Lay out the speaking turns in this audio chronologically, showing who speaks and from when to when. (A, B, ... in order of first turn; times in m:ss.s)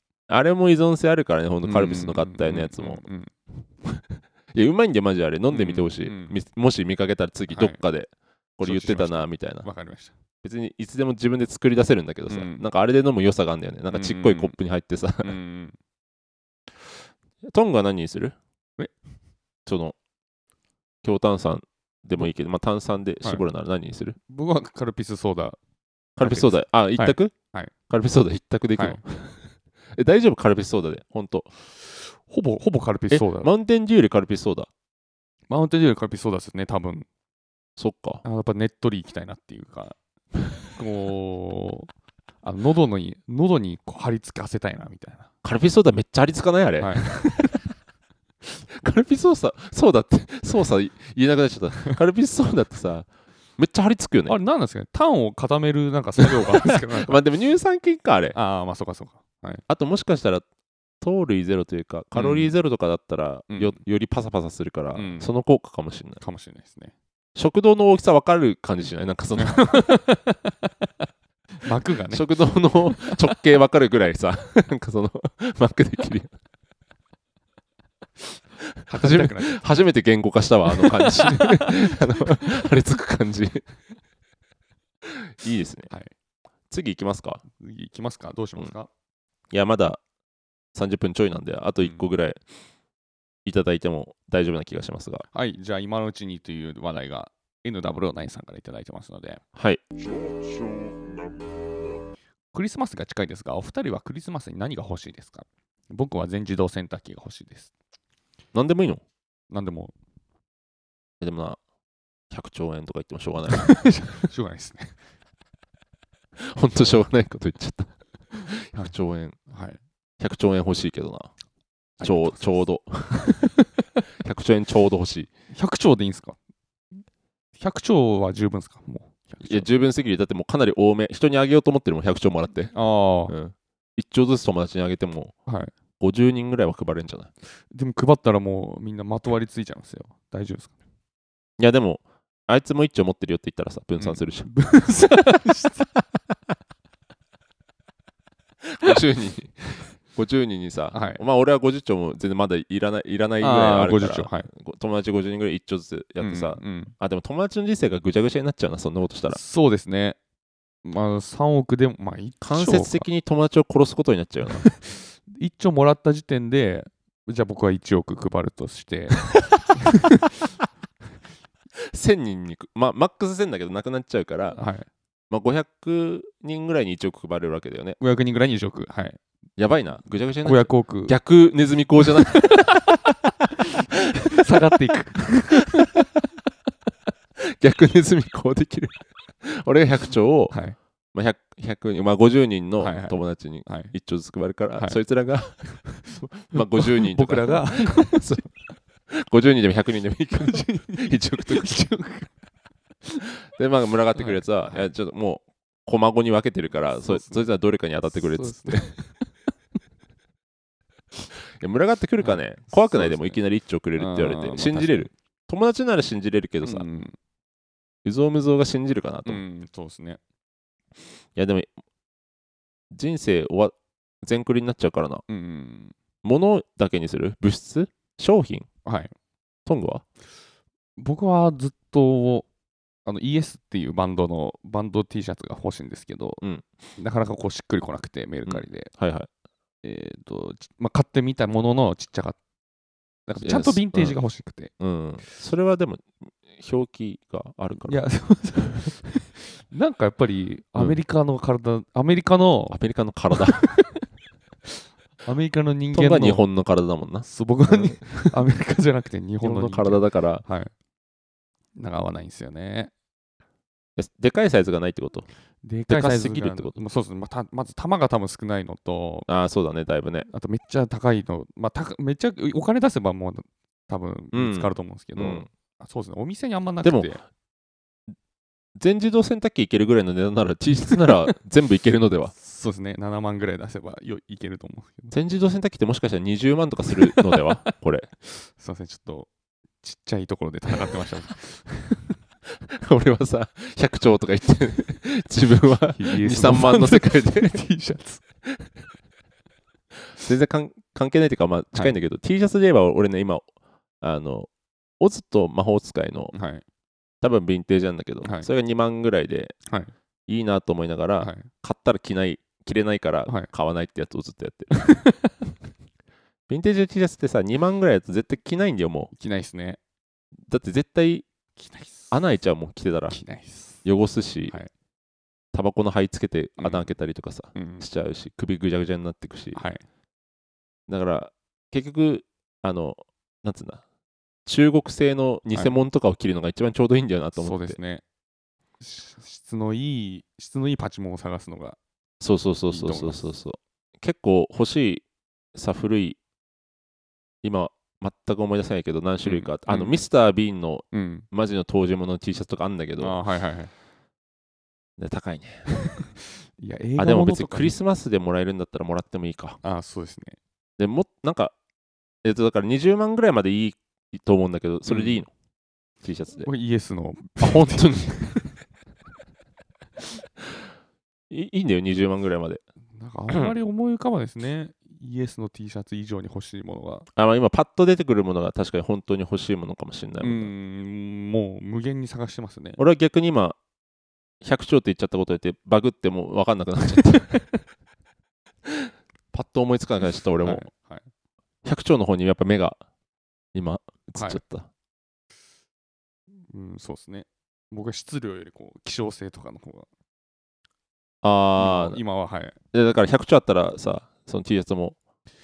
0:00.3-0:03.0 A
0:01.6-0:03.3 B
0:04.5-0:09.7 A
0:05.5-0:06.4 B
0:07.5-0:07.8 B
0:08.6-0:10.1 B
0:10.4-0:15.3 A
0:12.3-0:12.6 B
0:13.9-0:14.6 B
0:15.2-0:15.8 B
0:17.4-0:18.4 A
0:19.6-0:20.0 A
0:21.0-0:24.2 A
0:24.3-0:25.6 B
0:26.2-0:27.3 A
0:26.2-0:27.7 B
0:27.9-0:31.5 A
0:32.0-0:33.5 B
0:33.1-0:34.7 A
0:35.5-0:37.0 B
0:37.8-0:38.2 A
0:38.2-0:40.0 B
0:40.7-0:41.9 B
0:42.4-0:45.3 B
0:45.4-0:47.3 A
0:46.8-0:47.5 B
0:48.7-0:54.4 A
0:54.2-0:57.2 B
0:56.2-0:58.4 A
0:58.3-0:59.6 B
0:59.7-1:00.4 A
1:01.0-1:06.2 A
1:02.1-1:02.5 B
1:03.5-1:03.8 B
1:04.9-1:05.3 B
1:06.2-1:06.9 B
1:07.4-1:10.0 A
1:09.4-1:10.7 B
1:11.6-1:12.3 B
1:12.1-1:16.3 A
1:12.8-1:13.2 B
1:18.9-1:19.6 B
1:18.9-1:23.6 A
1:20.7-1:21.9 B
1:25.2-1:25.9 A
1:26.7-1:27.4 A
1:27.6-1:28.9 B
1:29.5-1:30.0 A
1:30.7-1:32.4 A
1:33.4-1:35.2 A
1:35.3-1:39.4 B
1:39.5-1:39.8 A
1:42.5-1:47.7 B
1:48.5-1:49.0 A
1:49.5-1:49.9 B
1:51.2-1:51.6 A
1:52.3-1:53.8 A
1:53.5-1:55.0 B
1:56.4-1:59.4 A
1:59.5-1:59.8 B
2:00.2-2:01.3 A
2:02.0-2:02.5 B
2:02.0-2:03.4 A
2:04.2-2:05.3 A
2:05.5-2:06.4 B
2:07.6-2:09.7 B
2:09.4-2:12.7 A
2:12.7-2:13.3 B
2:13.3-2:15.3 A
2:15.5-2:15.7 B
2:16.0-2:17.3 A
2:17.7-2:20.7 B
2:21.6-2:24.7 A
2:24.0-2:25.9 B
2:28.7-2:39.4 A
2:30.9-2:31.2 B
2:33.4-2:34.5 B
2:36.2-2:36.9 B
2:39.3-2:40.2 B
2:40.8-2:43.1 B
2:42.4-2:44.7 A
2:44.5-2:50.2 B
2:51.9-2:54.6 A
2:54.6-2:54.9 B
2:55.3-2:58.0 A
2:58.0-2:59.2 B
2:59.6-3:03.1 A
3:00.4-3:01.2 B
3:02.1-3:02.7 B
3:04.2-3:05.9 B
3:05.7-3:06.0 A
3:07.4-3:10.6 A
3:10.5-3:10.8 B
3:11.1-3:18.5 A
3:12.8-3:13.9 B
3:15.9-3:18.4 B
3:19.1-3:21.7 A
3:20.4-3:22.3 B
3:23.5-3:28.9 A
3:24.1-3:24.9 B
3:27.0-3:27.5 B
3:28.1-3:29.1 B
3:31.6-3:36.8 A
3:32.2-3:33.4 B
3:34.0-3:35.1 B
3:36.6-3:37.2 B
3:38.0-3:39.4 A
3:39.2-3:40.2 B
3:41.3-3:41.7 A
3:42.9-3:45.2 A
3:45.3-3:45.9 B
3:46.2-3:48.7 A
3:48.8-3:49.1 B
3:49.6-3:50.0 A
3:51.0-3:52.5 B
3:53.0-3:56.4 B
3:57.0-3:58.9 B
3:58.5-3:59.3 A
3:59.8-4:02.4 B
4:03.3-4:04.7 B
4:03.4-4:04.2 A
4:04.8-4:08.0 A
4:07.8-4:12.8 B
4:12.7-4:13.7 A
4:13.4-4:14.0 B
4:15.2-4:16.4 B
4:15.9-4:18.3 A
4:17.2-4:20.7 B
4:19.4-4:20.4 A
4:21.8-4:22.9 B
4:24.0-4:25.2 A
4:25.6-4:29.3 B
4:25.9-4:26.7 A
4:29.3-4:30.3 A
4:30.3-4:37.2 B
4:34.3-4:35.5 A
4:36.8-4:37.1 A
4:38.8-4:42.3 A
4:42.3-4:45.1 B
4:45.1-4:48.1 A
4:47.1-4:47.7 B
4:48.3-4:49.3 B
4:49.8-4:52.1 B
4:52.7-4:57.6 A
4:55.9-4:58.2 B
5:00.2-5:03.4 A
5:04.0-5:04.5 A
5:05.0-5:06.3 A
5:06.3-5:06.6 B
5:07.2-5:09.5 A
5:08.2-5:08.5 B
5:09.7-5:09.9 B
5:10.3-5:14.8 A
5:11.2-5:11.5 B
5:14.7-5:15.3 B
5:16.5-5:19.1 A
5:19.1-5:19.8 B
5:20.5-5:21.2 A
5:21.6-5:22.1 B
5:22.1-5:23.2 A
5:23.1-5:23.8 B
5:23.8-5:24.6 A
5:25.5-5:29.6 A
5:26.6-5:26.9 B
5:27.5-5:27.8 B
5:29.5-5:29.8 B
5:30.9-5:33.8 A
5:34.4-5:37.8 A
5:37.4-5:38.0 B
5:38.8-5:41.8 B
5:42.2-5:45.0 A
5:42.7-5:43.2 B
5:45.5-5:46.2 A
5:47.4-5:53.2 A
5:49.2-5:50.0 B
5:50.9-5:51.2 B
5:53.0-5:53.7 B
5:55.0-5:55.7 A
5:55.9-5:57.8 B
5:57.0-5:59.6 A
5:59.6-6:00.4 B
6:00.8-6:01.5 A
6:02.2-6:05.3 A
6:04.9-6:05.2 B
6:06.0-6:06.5 A
6:06.4-6:08.5 B
6:07.4-6:08.4 A
6:11.3-6:12.6 A
6:13.0-6:17.1 B
6:17.2-6:20.5 A
6:20.2-6:22.8 B
6:22.8-6:23.6 A
6:24.4-6:27.6 A
6:28.7-6:30.6 A
6:30.4-6:31.0 B
6:31.6-6:32.8 A
6:33.5-6:34.7 A
6:34.2-6:34.4 B
6:36.5-6:39.9 B
6:41.2-6:42.0 A
6:41.6-6:42.6 B
6:42.7-6:45.0 A